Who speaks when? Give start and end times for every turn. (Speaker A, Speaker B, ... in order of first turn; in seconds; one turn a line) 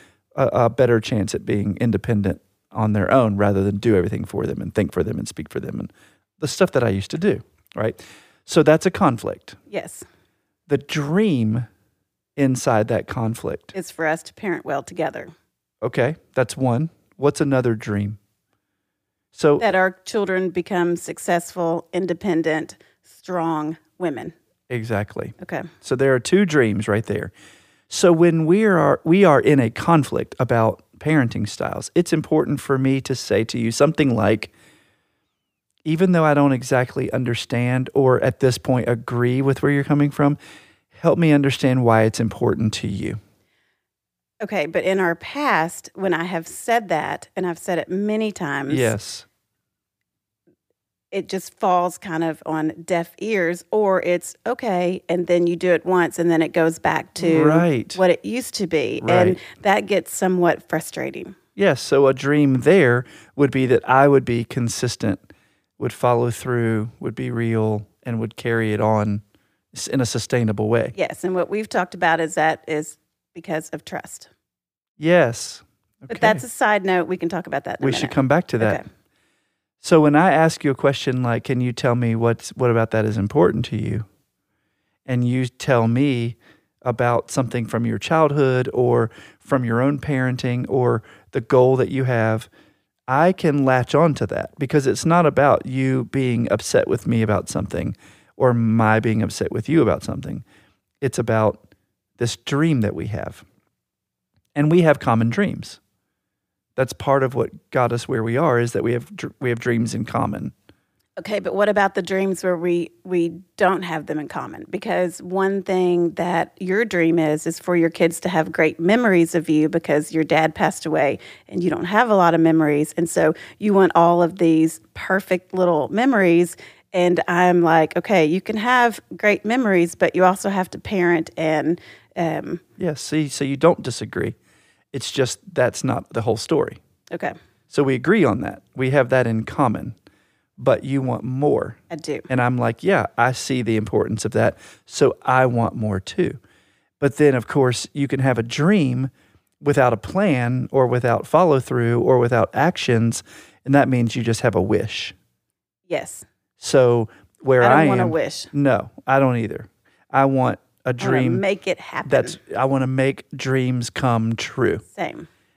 Speaker A: 0.3-9.6
Speaker B: 9.7-10.0
Speaker A: 10.7-11.7
Speaker A: 12.3-13.7
Speaker B: 13.7-15.3
Speaker A: 15.8-18.2
Speaker A: 19.3-19.6
Speaker B: 19.6-24.3
Speaker A: 24.7-27.3
Speaker B: 25.4-25.7
Speaker A: 27.9-34.5
Speaker A: 35.8-40.4
Speaker A: 40.9-43.2
Speaker B: 44.4-48.9
Speaker A: 48.7-49.2
Speaker B: 51.1-61.4
Speaker A: 57.2-58.0
Speaker A: 59.0-59.4
Speaker A: 61.5-65.2
Speaker A: 65.8-70.9
Speaker B: 70.9-74.3
Speaker A: 75.0-76.4
Speaker B: 76.1-78.8
Speaker A: 77.8-78.8
Speaker A: 79.8-84.1
Speaker A: 85.1-92.5
Speaker A: 93.1-100.4
Speaker A: 101.0-101.6
Speaker A: 102.2-103.4
Speaker A: 104.5-105.8
Speaker A: 106.8-110.5
Speaker B: 111.2-132.6
Speaker A: 132.8-134.3
Speaker A: 134.9-136.8
Speaker B: 137.1-137.3
Speaker A: 137.7-139.9
Speaker A: 140.6-146.4
Speaker B: 141.9-142.3
Speaker A: 147.0-155.1
Speaker B: 155.9-156.2
Speaker A: 156.6-161.4
Speaker B: 157.6-158.5
Speaker B: 161.0-162.4
Speaker A: 162.0-164.8
Speaker B: 164.9-165.3